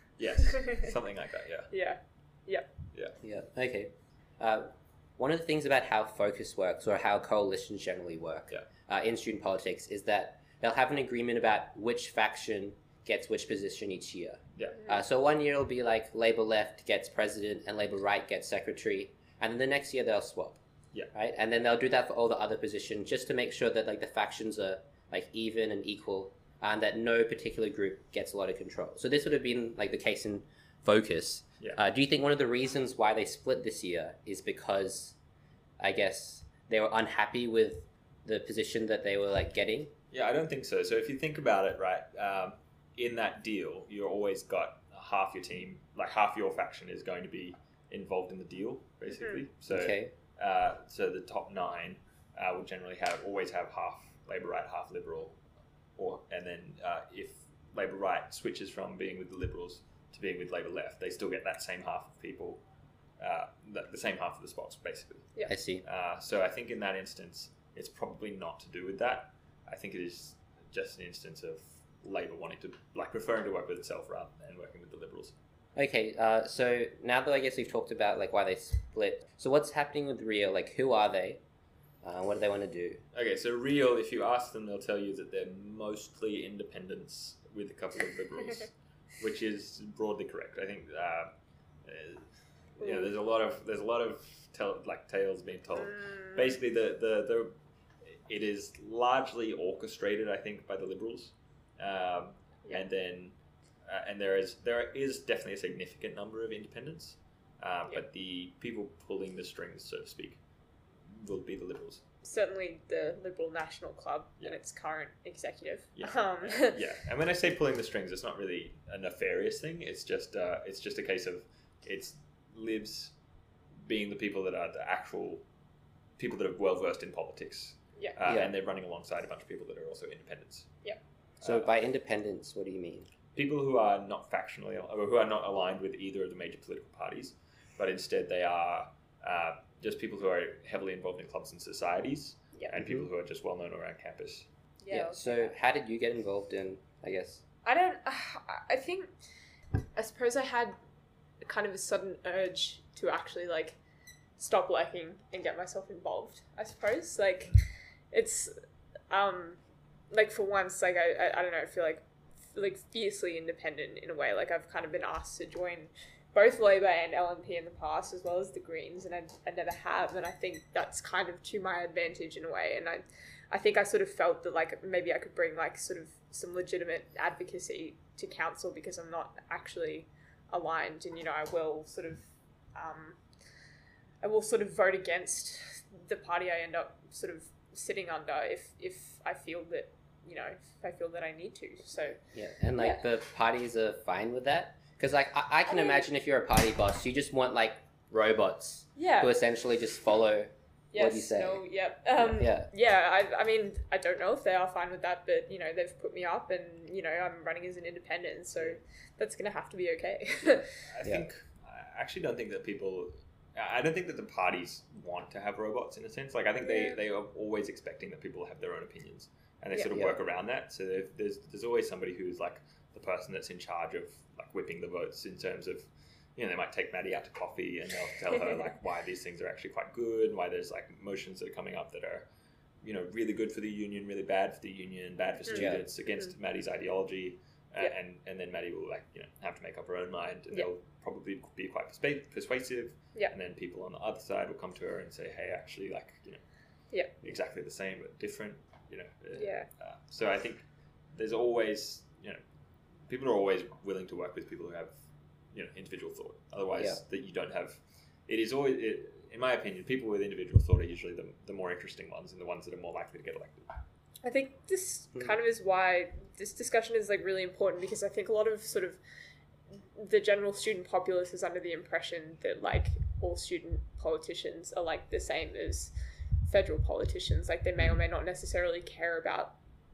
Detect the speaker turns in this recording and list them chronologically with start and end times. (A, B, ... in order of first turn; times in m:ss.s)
0:00.2-0:01.7 A
0:01.7-0:02.7 B
0:03.2-0:20.6 C
0:21.1-0:35.2 C
0:35.8-0:39.9 C
0:40.1-0:55.4 A
0:49.1-0:49.4 B
0:49.7-0:50.1 C
0:56.0-1:02.6 A
1:03.2-1:05.3 A
1:05.5-1:05.8 C
1:05.8-1:15.3 A
1:15.8-1:21.4 C
1:22.0-1:23.0 C
1:23.1-1:31.3 A
1:31.8-1:32.2 A
1:32.8-1:37.5 A
1:32.8-1:33.1 B
1:35.8-1:36.6 B
1:38.2-1:43.3 A
1:43.8-1:50.4 A
1:51.1-1:52.0 A
1:52.2-1:56.8 B
1:56.0-2:03.1 A
2:03.8-2:05.4 A
2:06.2-2:10.7 A
2:08.2-2:08.5 C
2:11.4-2:11.7 A
2:11.4-2:13.1 C
2:13.3-2:24.5 A
2:22.8-2:23.0 C
2:24.8-2:25.5 B
2:24.9-2:27.4 C
2:27.6-2:29.1 B
2:29.9-2:30.8 B
2:31.4-2:33.8 B
2:34.4-2:37.6 B
2:38.1-2:38.5 B
2:39.1-2:39.6 B
2:40.1-2:42.0 B
2:42.5-3:03.2 B
3:04.2-3:12.2 B
3:12.3-3:21.6 C
3:12.8-3:13.0 B
3:15.7-3:16.0 B
3:19.0-3:19.3 B
3:20.9-3:30.7 B
3:22.2-3:22.7 C
3:30.9-3:52.2 A
3:36.6-3:37.0 B
3:52.8-4:06.4 A
3:55.5-3:56.3 B
3:55.5-3:55.8 C
4:07.2-4:10.6 A
4:09.4-4:09.7 B
4:11.1-4:12.4 A
4:13.1-4:14.9 A
4:15.5-4:23.7 A
4:24.2-4:29.0 B
4:30.0-4:35.9 B
4:36.4-4:39.5 B